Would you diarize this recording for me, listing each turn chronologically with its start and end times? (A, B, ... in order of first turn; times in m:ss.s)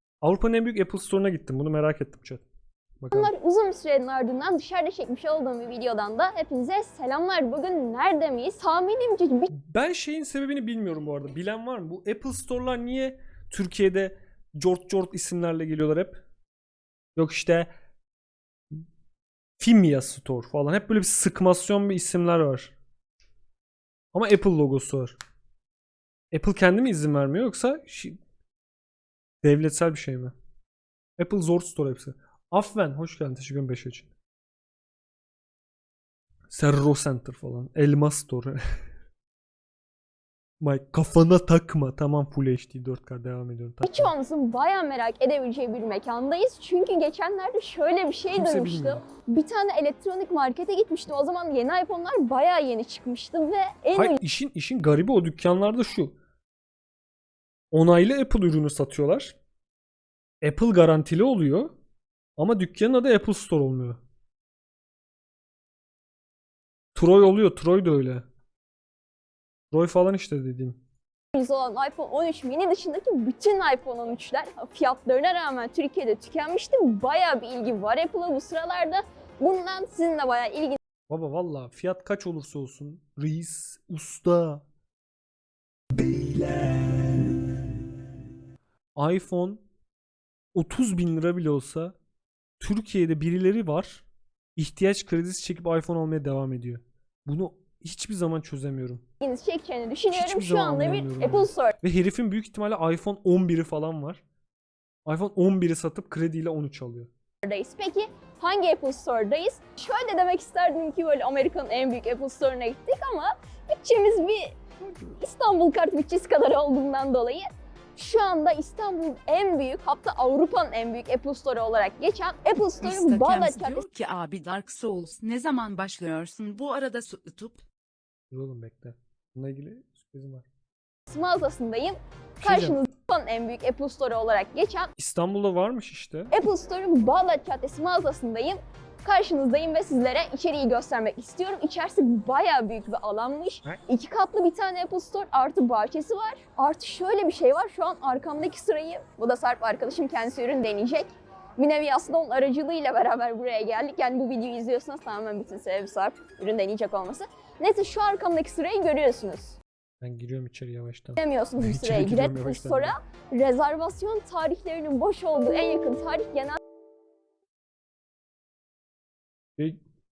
0:00.2-0:02.4 A
0:03.0-0:03.3 A
0:03.1-0:09.5 B
0:09.5-0:16.2 A
0:17.2-0:17.7 A
0:19.6-0:22.7 A
0:24.1-0:25.2 A
0:26.3-0:28.2 A
0:29.4-0:30.3 A
0:31.2-0:34.1 A
0:36.5-0:38.6 A
0:40.6-0:44.1 A
0:43.8-0:54.2 B
0:48.3-0:49.0 A
0:53.9-0:56.1 A
0:57.7-0:59.4 A
1:00.4-1:01.7 A
1:02.4-1:04.0 A
1:06.9-1:08.2 A
1:09.7-1:10.8 A
1:11.3-1:20.8 B
1:21.1-1:24.6 A
1:25.9-1:26.9 A
1:29.0-1:29.6 A
1:30.5-1:31.9 A
1:32.6-1:34.0 A
1:34.6-1:39.0 A
1:39.2-1:41.7 B
1:40.1-1:44.2 A
1:45.0-1:47.1 A
1:47.4-2:03.8 B
2:02.8-2:07.6 C
2:08.3-2:10.4 A
2:11.1-2:14.9 B
2:12.4-2:12.8 A
2:15.0-2:16.3 A
2:16.3-2:39.6 B
2:40.0-2:42.9 A
2:41.2-2:46.6 B